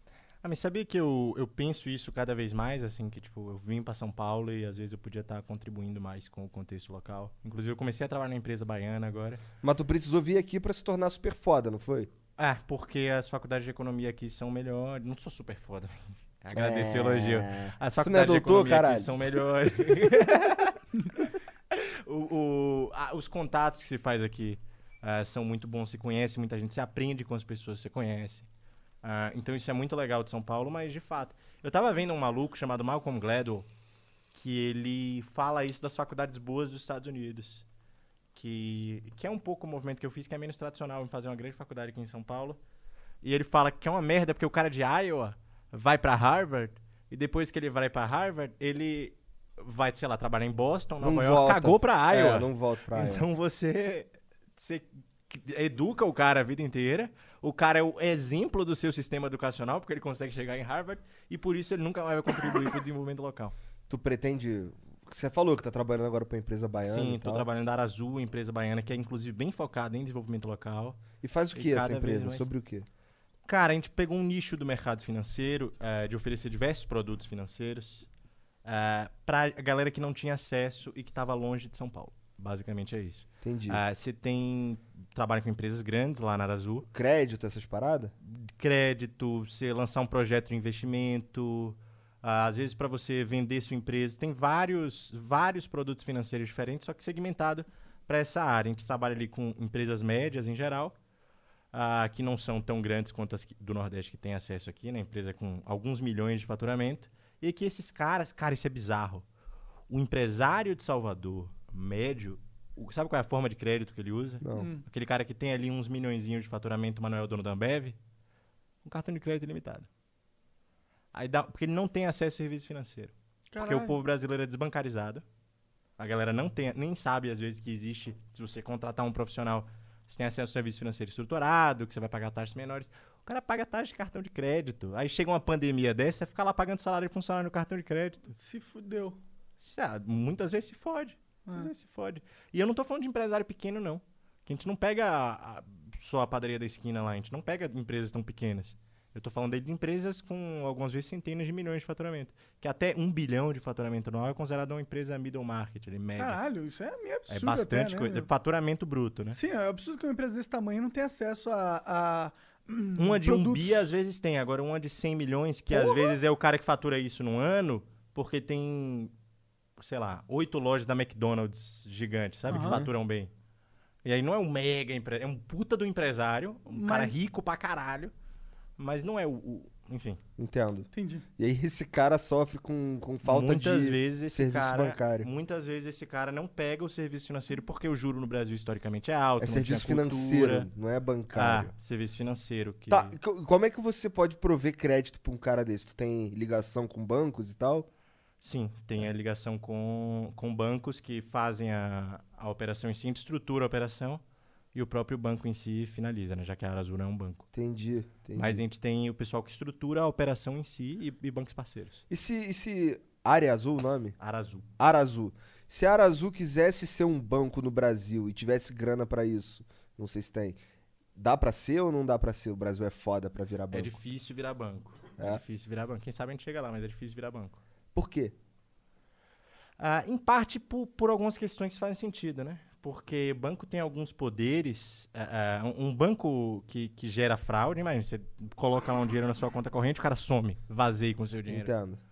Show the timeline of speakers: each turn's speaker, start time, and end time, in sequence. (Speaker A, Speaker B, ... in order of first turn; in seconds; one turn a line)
Speaker A: 0.4-9.4
Speaker B: 9.6-12.1
Speaker A: 12.4-20.8
Speaker B: 16.5-19.2
Speaker A: 21.7-28.5
Speaker A: 29.0-33.7
Speaker A: 34.4-37.6
Speaker A: 38.4-42.6
Speaker A: 43.2-63.5
Speaker B: 51.0-53.3
Speaker B: 63.9-67.5
Speaker A: 66.8-71.0
Speaker B: 71.2-72.9
Speaker A: 71.5-72.5
Speaker A: 73.5-78.1
Speaker A: 78.7-86.9
Speaker B: 83.4-83.8
Speaker B: 86.9-88.1
Speaker A: 88.2-101.0
Speaker A: 101.7-109.2
Speaker A: 109.9-118.0
Speaker B: 114.4-114.7
Speaker C: 114.5-114.8
Speaker A: 118.8-119.9
Speaker A: 121.1-125.2
Speaker C: 123.5-124.0
Speaker A: 126.0-138.3
Speaker C: 138.4-139.2
Speaker A: 139.6-156.4
Speaker C: 156.2-158.3
Speaker A: 157.3-159.4
Speaker C: 159.3-163.9
Speaker A: 163.0-169.1
Speaker C: 165.7-166.2
Speaker A: 169.8-173.3
Speaker C: 172.5-172.8
Speaker A: 174.1-178.1
Speaker C: 176.7-177.2
Speaker A: 178.8-180.2
Speaker B: 180.4-185.3
Speaker C: 180.9-181.2
Speaker A: 183.2-190.7
Speaker B: 189.4-191.7
Speaker A: 191.3-193.2
Speaker B: 192.9-197.9
Speaker A: 198.4-204.2
Speaker A: 204.7-207.4
Speaker B: 207.5-208.6
Speaker A: 208.4-212.0
Speaker B: 212.1-214.2
Speaker A: 214.2-214.7
Speaker B: 214.8-220.6
Speaker B: 221.2-224.0
Speaker A: 223.7-227.6
Speaker B: 227.9-228.3
Speaker A: 229.8-241.7
Speaker B: 241.5-242.0